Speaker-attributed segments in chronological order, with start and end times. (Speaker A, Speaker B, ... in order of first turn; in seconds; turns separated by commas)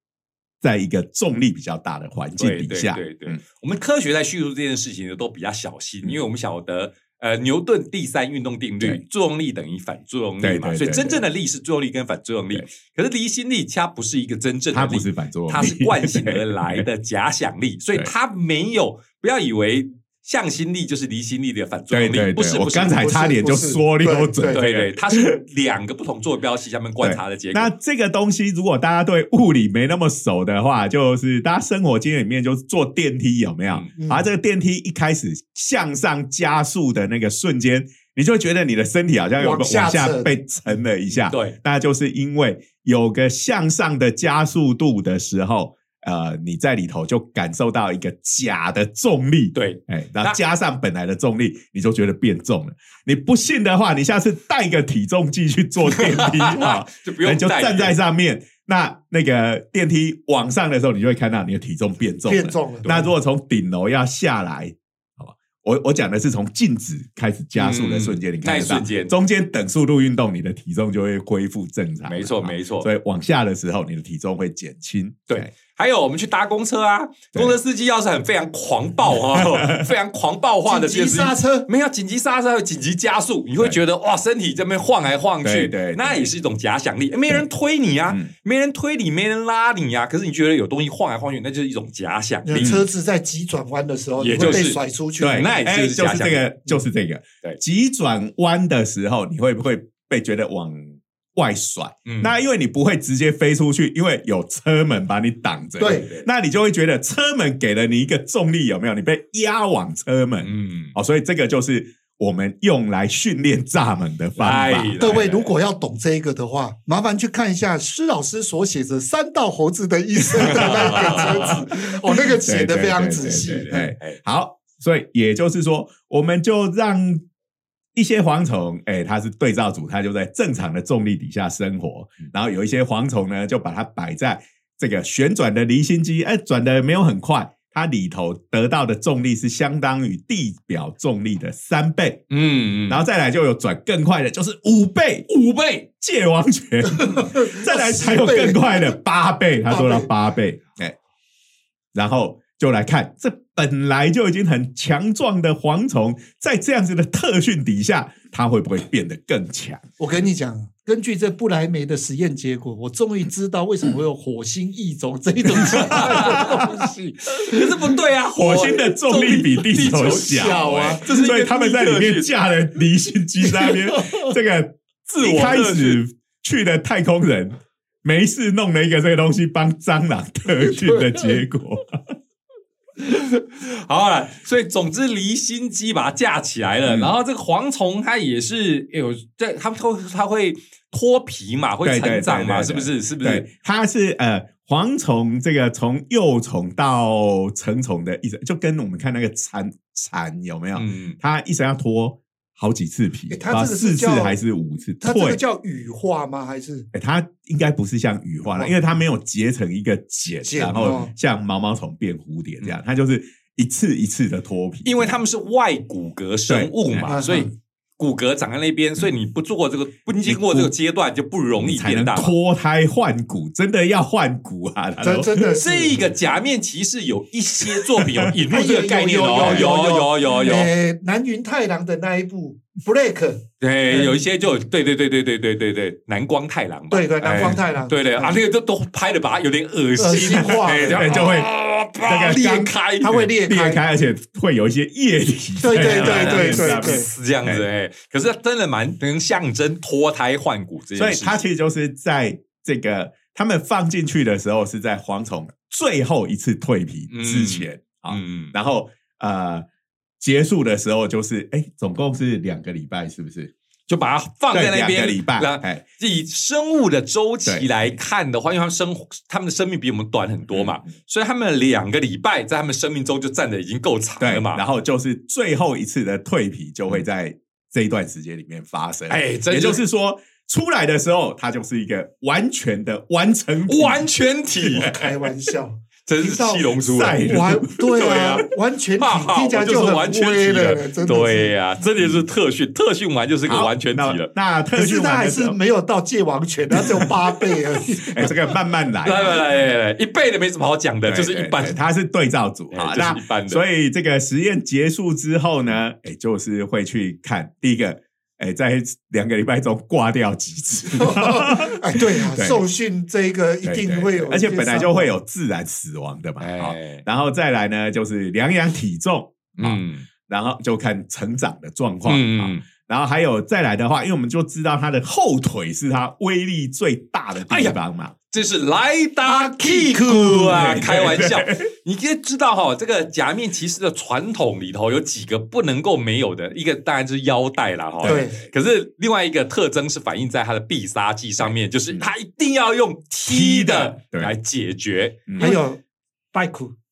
Speaker A: 0.6-3.4, Speaker B: 2.4-23.0, Speaker A: 10.4-11.2, Speaker A: 14.7-16.9, Speaker A: 21.9-25.4, Speaker C: 22.9-24.6, Speaker B: 24.5-27.7, Speaker A: 27.0-75.5, Speaker C: 34.0-34.3, Speaker C: 39.4-40.3, Speaker B: 41.3-41.6, Speaker B: 49.5-50.4, Speaker B: 55.9-58.0, Speaker C: 62.3-63.0, Speaker B: 62.8-63.1, Speaker B: 67.6-69.1, Speaker B: 72.1-72.9, Speaker B: 75.3-92.8, Speaker A: 79.3-79.9, Speaker C: 80.7-81.7, Speaker A: 85.4-86.3, Speaker C: 92.5-95.5, Speaker A: 92.6-92.8, Speaker B: 94.2-94.8, Speaker A: 95.2-115.0, Speaker B: 95.3-96.5, Speaker B: 102.1-102.3, Speaker C: 105.8-106.1, Speaker B: 105.8-106.3, Speaker B: 110.4-111.0, Speaker B: 114.4-115.5, Speaker C: 115.0-123.9, Speaker B: 120.4-121.6, Speaker A: 120.4-127.2, Speaker B: 123.2-124.2, Speaker A: 127.9-142.2, Speaker B: 142.3-143.0, Speaker A: 142.9-145.3, Speaker B: 145.3-145.9, Speaker A: 146.0-150.9, Speaker C: 147.0-148.9, Speaker C: 149.7-150.1, Speaker A: 151.9-159.8, Speaker C: 160.0-167.9, Speaker B: 165.6-166.7, Speaker A: 165.6-166.9, Speaker B: 167.3-172.3, Speaker A: 168.3-182.1, Speaker C: 170.1-171.0, Speaker C: 173.6-174.3, Speaker B: 175.1-176.0, Speaker C: 180.7-181.4, Speaker B: 183.0-193.5, Speaker A: 186.8-187.1, Speaker A: 191.8-205.4, Speaker B: 200.8-201.2, Speaker C: 203.3-204.4, Speaker C: 205.0-206.9, Speaker A: 206.9-215.2, Speaker C: 210.4-211.1, Speaker B: 214.8-222.3, Speaker A: 216.5-217.2, Speaker C: 217.1-217.5, Speaker A: 220.2-220.7, Speaker A: 221.6-225.6, Speaker C: 225.0-226.0, Speaker B: 225.1-230.7, Speaker A: 227.8-228.3, Speaker C: 228.5-234.2, Speaker A: 229.4-229.7, Speaker B: 233.6-243.3, Speaker C: 236.9-238.4, Speaker C: 240.0-241.2, Speaker A: 240.4-241.5, Speaker A: 242.0-242.8, Speaker C: 243.0-243.8, Speaker A: 243.3-247.7, Speaker C: 245.6-247.1, Speaker B: 245.8-251.4, Speaker A: 251.0-259.7, Speaker B: 257.1-258.5, Speaker A: 260.2-263.5, Speaker B: 263.9-274.6, Speaker A: 264.5-265.8, Speaker A: 267.5-267.9, Speaker A: 270.5-270.8, Speaker A: 274.2-284.1, Speaker B: 279.1-279.8, Speaker B: 283.7-285.1, Speaker C: 284.6-291.6, Speaker B: 286.1-294.3, Speaker A: 286.8-288.1, Speaker A: 292.0-292.2, Speaker A: 293.5-295.6, Speaker C: 294.8-298.4, Speaker A: 296.8-297.1, Speaker A: 297.8-299.6, Speaker B: 299.0-301.8, Speaker A: 301.1-312.6, Speaker B: 302.7-303.6, Speaker C: 311.0-315.1, Speaker A: 313.6-328.1, Speaker B: 316.4-317.1, Speaker B: 319.6-320.1, Speaker B: 322.1-322.6, Speaker B: 327.5-327.8, Speaker B: 328.3-345.6, Speaker C: 329.2-330.8, Speaker A: 330.5-331.7, Speaker A: 338.0-338.3, Speaker C: 338.1-338.4, Speaker A: 343.3-344.3, Speaker A: 345.3-345.6, Speaker C: 345.4-345.8, Speaker C: 346.3-346.7